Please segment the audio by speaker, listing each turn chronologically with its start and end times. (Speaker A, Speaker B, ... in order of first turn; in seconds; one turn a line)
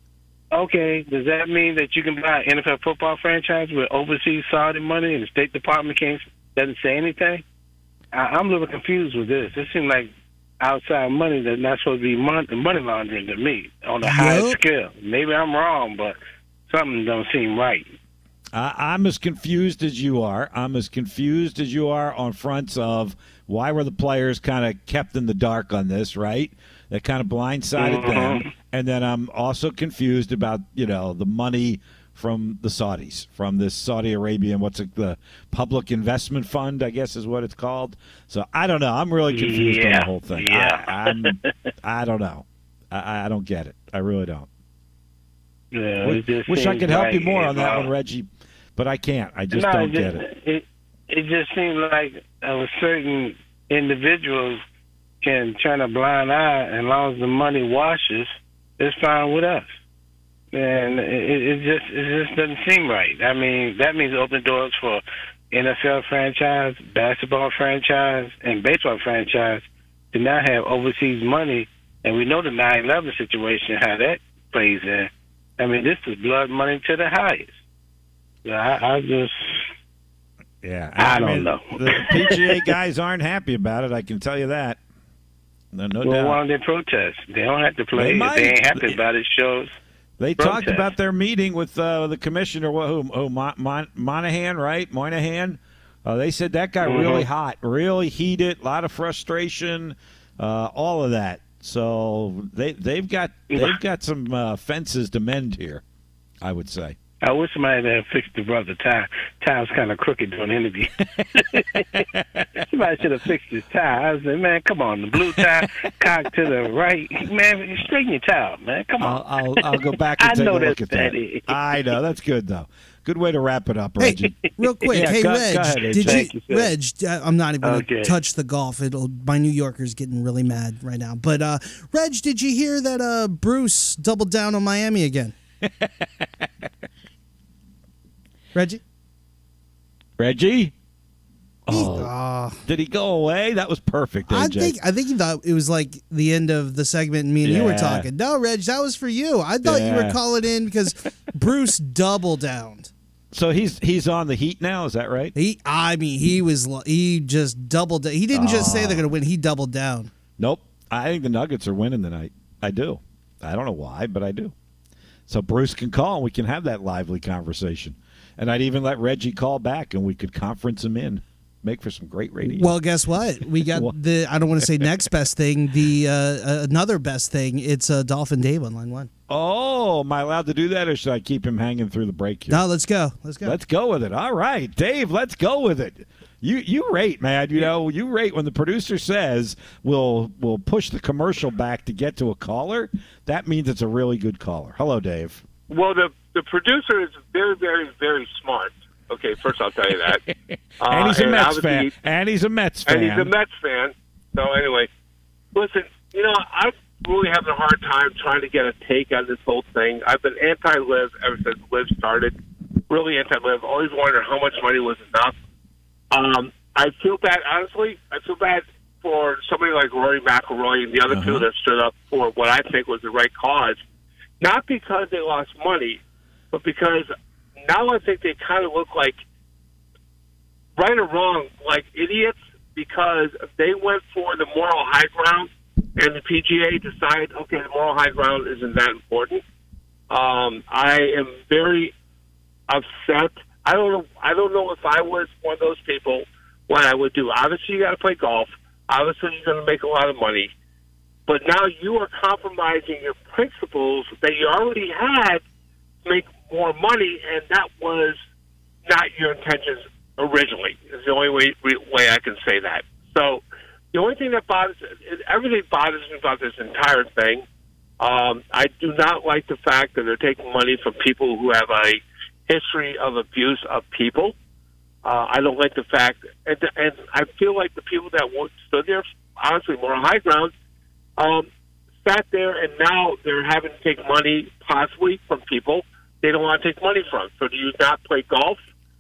Speaker A: 0.5-7.4
Speaker A: 8.1-16.2
Speaker B: 14.0-14.6
Speaker A: 16.7-17.9
Speaker C: 18.5-44.5
Speaker A: 27.8-28.5
Speaker A: 39.3-41.5
Speaker A: 45.7-47.9
Speaker C: 46.0-50.2
Speaker A: 49.5-54.6
Speaker A: 55.2-59.7
Speaker A: 60.5-77.5
Speaker A: 78.5-79.7
Speaker C: 80.6-84.8
Speaker A: 81.0-82.8
Speaker C: 85.7-86.4
Speaker A: 86.0-89.8
Speaker C: 88.0-89.0
Speaker C: 90.2-105.8
Speaker A: 90.4-90.9
Speaker A: 96.8-97.3
Speaker A: 103.5-103.8
Speaker C: 106.4-107.0
Speaker A: 107.2-122.0
Speaker C: 111.2-112.4
Speaker C: 119.0-124.3
Speaker B: 124.0-135.3
Speaker A: 124.4-124.9
Speaker C: 124.9-126.3
Speaker A: 126.0-126.7
Speaker A: 127.6-128.2
Speaker C: 135.6-136.2
Speaker B: 138.6-138.8
Speaker C: 140.2-140.7
Speaker C: 141.7-142.1
Speaker B: 141.7-142.6
Speaker C: 142.7-144.8
Speaker B: 144.3-152.9
Speaker C: 147.4-148.1
Speaker C: 149.6-150.2
Speaker C: 153.3-155.3
Speaker B: 155.4-160.1
Speaker C: 158.3-159.1
Speaker C: 160.4-164.5
Speaker C: 165.3-172.8
Speaker B: 172.4-179.1
Speaker C: 173.6-174.0
Speaker C: 174.6-174.9
Speaker C: 179.3-182.6
Speaker B: 182.5-183.6
Speaker C: 183.4-195.4
Speaker D: 195.7-200.2
Speaker C: 200.0-203.3
Speaker D: 200.8-201.9
Speaker D: 202.9-204.9
Speaker D: 205.5-212.3
Speaker D: 212.9-215.3
Speaker D: 216.1-223.8
Speaker C: 221.1-221.5
Speaker D: 224.4-226.0
Speaker D: 226.5-227.1
Speaker D: 227.6-229.2
Speaker D: 230.8-239.4
Speaker D: 240.1-241.9
Speaker D: 242.7-250.5
Speaker D: 251.3-255.4
Speaker D: 256.1-258.2
Speaker D: 258.9-267.4
Speaker D: 268.0-274.3
Speaker D: 275.0-280.5
Speaker D: 281.2-281.5
Speaker D: 282.1-288.6